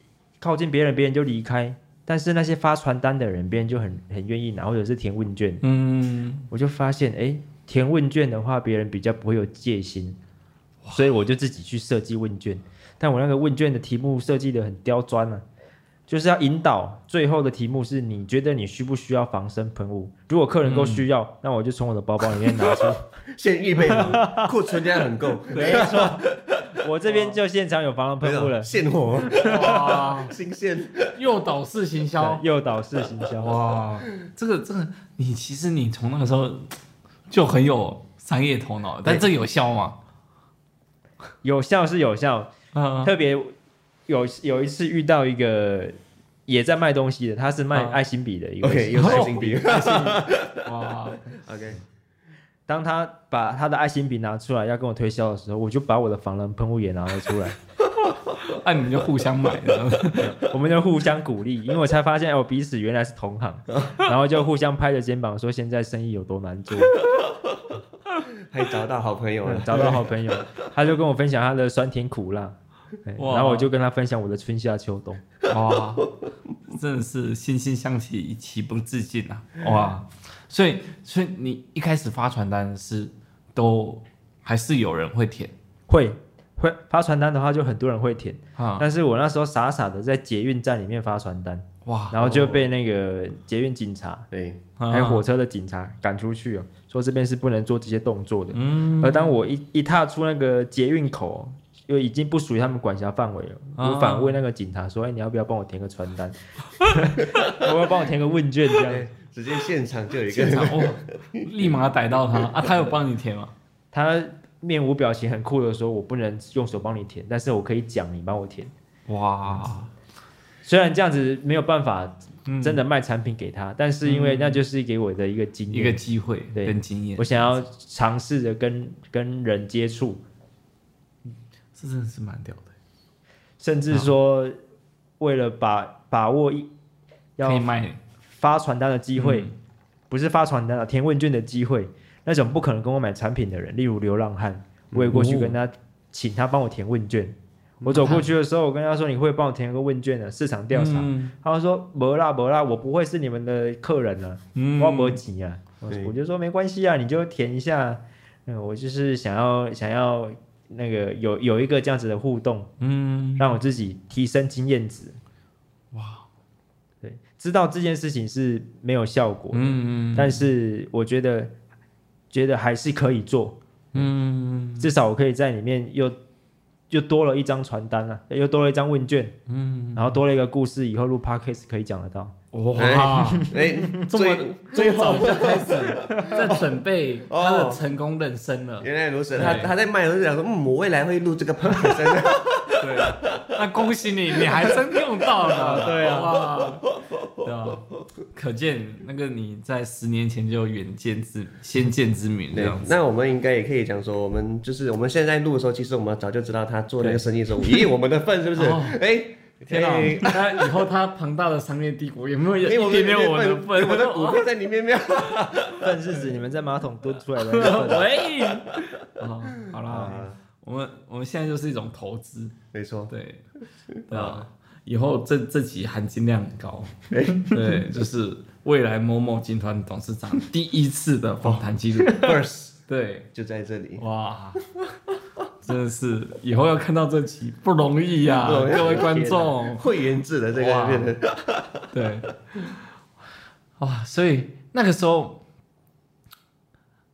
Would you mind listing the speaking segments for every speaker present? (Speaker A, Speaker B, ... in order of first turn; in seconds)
Speaker A: 0.4-5.6, 6.5-10.2, 10.9-15.4, 16.1-23.0, 23.9-24.5, 25.5-28.8, 32.2-33.6, 41.4-42.5, 43.0-43.5, 44.1-49.4, 52.7-57.6, 60.3-67.0, 69.4-75.2, 85.9-94.2, 94.9-109.1, 113.9-118.7, 120.6-126.0, 126.5-130.2, 133.6-134.6, 135.2-136.7, 137.4-137.7, 138.3-139.5, 140.1-162.7, 163.4-165.2, 167.0-171.5, 172.3-174.1, 174.8-176.2, 176.9-179.3, 179.9-182.3, 183.4-184.0, 195.6-196.3, 215.8-218.1, 219.9-220.2, 238.6-239.5
Speaker B: 5.6-6.5, 20.6-21.0, 25.5-25.9, 29.3-30.4, 31.1-32.4, 33.4-40.0, 42.7-43.1, 47.7-48.0, 48.9-51.3, 58.2-60.4, 73.2-73.7, 75.5-76.1, 76.7-85.5, 88.6-88.8, 91.8-92.2, 94.8-95.2, 98.5-99.3, 103.8-104.4, 110.3-113.5, 119.1-119.9, 122.5-122.8, 124.0-124.6, 125.7-127.5, 131.7-132.7, 137.4-138.0, 139.1-139.5, 145.1-145.6, 147.9-148.3, 150.7-151.3, 154.5-155.2, 162.8-163.5, 165.9-166.2, 169.5-170.5, 173.9-174.9, 179.5-180.1, 182.5-189.7, 192.8-203.0, 207.0-207.8, 208.6-209.0, 209.7-214.5, 217.4-222.6, 223.1-223.4, 224.1-232.3, 232.9-233.3, 234.0-234.6, 235.6-239.9, 240.5-241.1, 241.9-242.3, 243.8-245.4
Speaker C: 23.3-27.2, 28.2-31.2, 48.6-50.7, 51.3-51.8, 68.4-70.1, 92.2-92.7, 94.3-94.6, 108.8-111.7, 144.9-145.2, 155.9-156.1, 182.8-186.7, 187.2-187.8, 188.8-193.6, 194.3-196.2, 197.0-197.5, 202.5-210.7, 212.6-216.2, 219.9-220.4, 222.7-223.1, 223.9-224.4, 227.1-227.8, 231.4-232.8, 233.3-234.0, 238.4-241.8